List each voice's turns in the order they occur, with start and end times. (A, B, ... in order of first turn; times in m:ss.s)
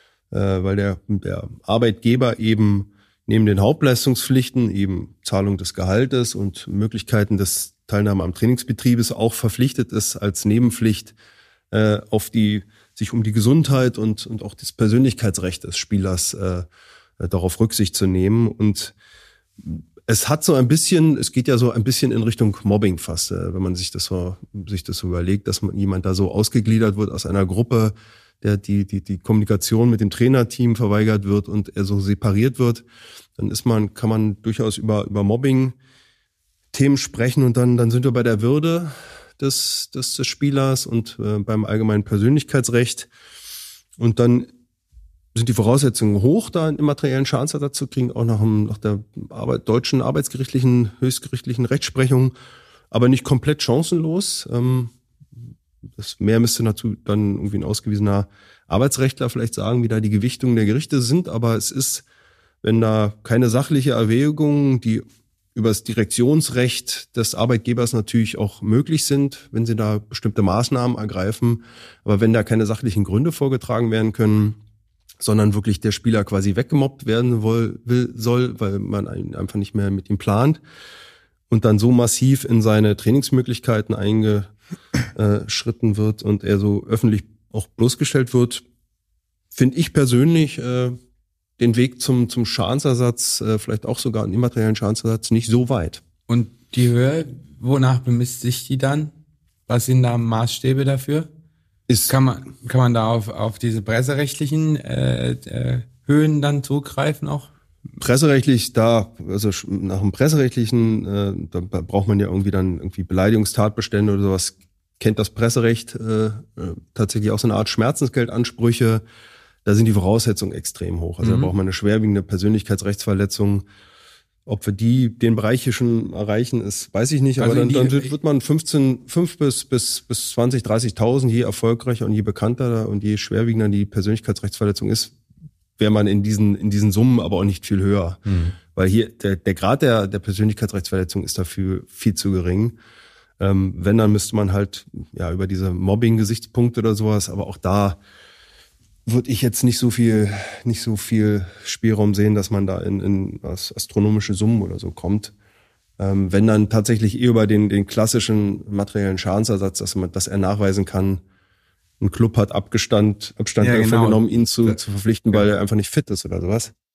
0:00.3-0:11.1 A
0:11.7-0:16.7 A
0:17.2-0:18.9 A
0:20.1-0:32.8 A
0:33.4-0:35.8 A
0:36.7-0:43.1 A
0:44.0-0:44.5 A
0:45.4-0:52.3 A
0:52.9-0:54.9 A
0:56.0-1:02.0 A
1:02.6-1:05.0 A
1:05.6-1:14.6 A
1:15.2-1:20.6 A
1:21.5-1:24.5 A
1:25.2-1:28.6 A
1:29.6-1:30.9 A
1:31.6-1:36.0 A
1:36.3-1:39.1 B
1:39.7-1:41.3 B
1:41.9-1:42.1 A
1:42.1-1:47.5 B
1:48.0-1:59.0 A
1:59.7-2:03.6 A
2:01.2-2:01.5 B
2:04.5-2:15.1 A
2:07.4-2:08.1 B
2:15.8-2:18.2 A
2:18.3-2:18.6 B
2:18.8-2:22.7 A
2:23.4-2:28.0 A
2:29.1-2:35.3 A
2:36.0-2:41.2 A
2:42.0-2:46.7 A
2:43.6-2:44.8 B